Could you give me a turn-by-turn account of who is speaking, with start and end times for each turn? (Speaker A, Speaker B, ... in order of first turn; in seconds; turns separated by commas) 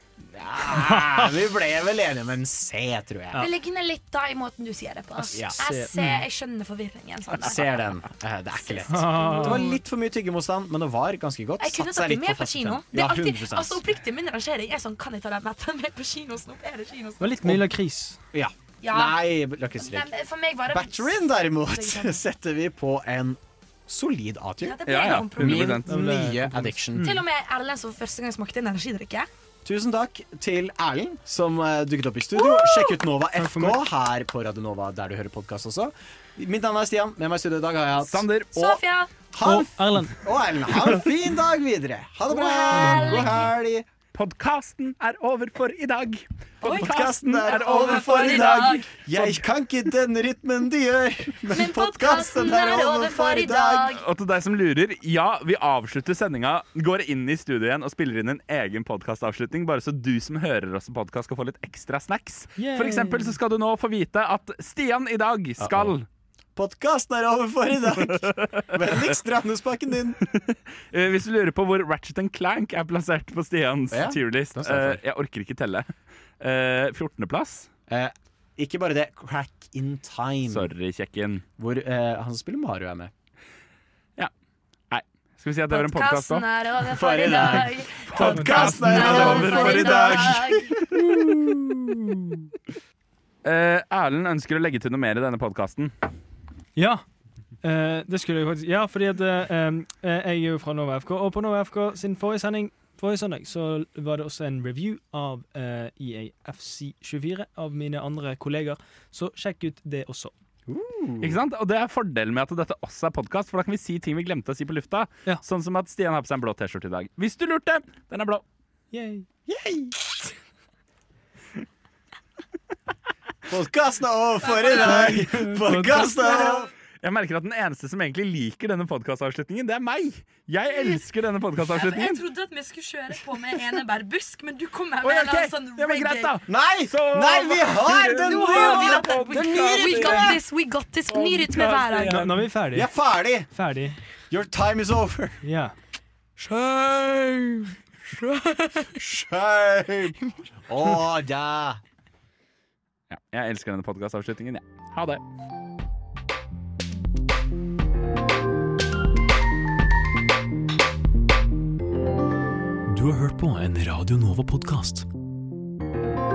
Speaker A: 0.2-3.5, Speaker B: 0.7-1.2, Speaker C: 3.4-7.8, Speaker A: 5.3-5.6, Speaker B: 5.3-6.2, Speaker A: 7.4-13.8, Speaker C: 8.5-9.8, Speaker B: 8.9-9.6, Speaker C: 11.6-17.6, Speaker B: 17.2-18.2, Speaker A: 18.3-20.1, Speaker C: 18.8-19.2, Speaker C: 19.8-22.2, Speaker A: 20.7-27.1, Speaker C: 24.6-25.8, Speaker D: 24.9-25.9, Speaker B: 25.9-27.2, Speaker C: 27.0-29.3, Speaker A: 29.6-38.8, Speaker C: 32.4-33.0, Speaker B: 33.4-33.8, Speaker D: 38.0-38.8, Speaker C: 38.5-39.1, Speaker A: 39.3-43.9, Speaker B: 39.4-40.2, Speaker C: 42.3-43.5, Speaker B: 42.7-43.4, Speaker D: 44.1-48.6, Speaker C: 46.6-48.9, Speaker A: 46.6-54.0, Speaker C: 51.5-54.0, Speaker D: 53.9-66.1, Speaker B: 62.6-63.4, Speaker A: 65.6-66.0, Speaker A: 66.6-70.2, Speaker D: 68.1-69.1, Speaker D: 70.3-77.7, Speaker A: 73.9-75.0, Speaker A: 77.9-80.7, Speaker D: 80.5-81.4, Speaker A: 81.6-83.1, Speaker D: 84.9-86.5, Speaker C: 85.7-90.8, Speaker A: 86.9-92.3, Speaker D: 88.1-90.4, Speaker B: 88.2-89.4, Speaker D: 93.4-95.9, Speaker B: 96.8-97.0, Speaker B: 97.6-110.3, Speaker A: 110.7-111.4, Speaker D: 111.2-118.4, Speaker B: 118.9-119.3, Speaker A: 119.5-120.1, Speaker A: 123.5-126.7, Speaker C: 124.4-125.2, Speaker B: 124.8-126.6, Speaker D: 127.0-132.2, Speaker C: 131.7-136.3, Speaker D: 135.0-140.4, Speaker A: 136.5-140.4, Speaker C: 138.2-142.2, Speaker D: 141.1-142.4, Speaker B: 142.0-142.9, Speaker A: 142.7-143.5, Speaker B: 143.5-144.0, Speaker A: 144.2-145.4, Speaker B: 145.4-145.8, Speaker C: 146.4-149.0, Speaker A: 149.0-151.8, Speaker D: 153.1-155.2, Speaker E: 162.9-165.1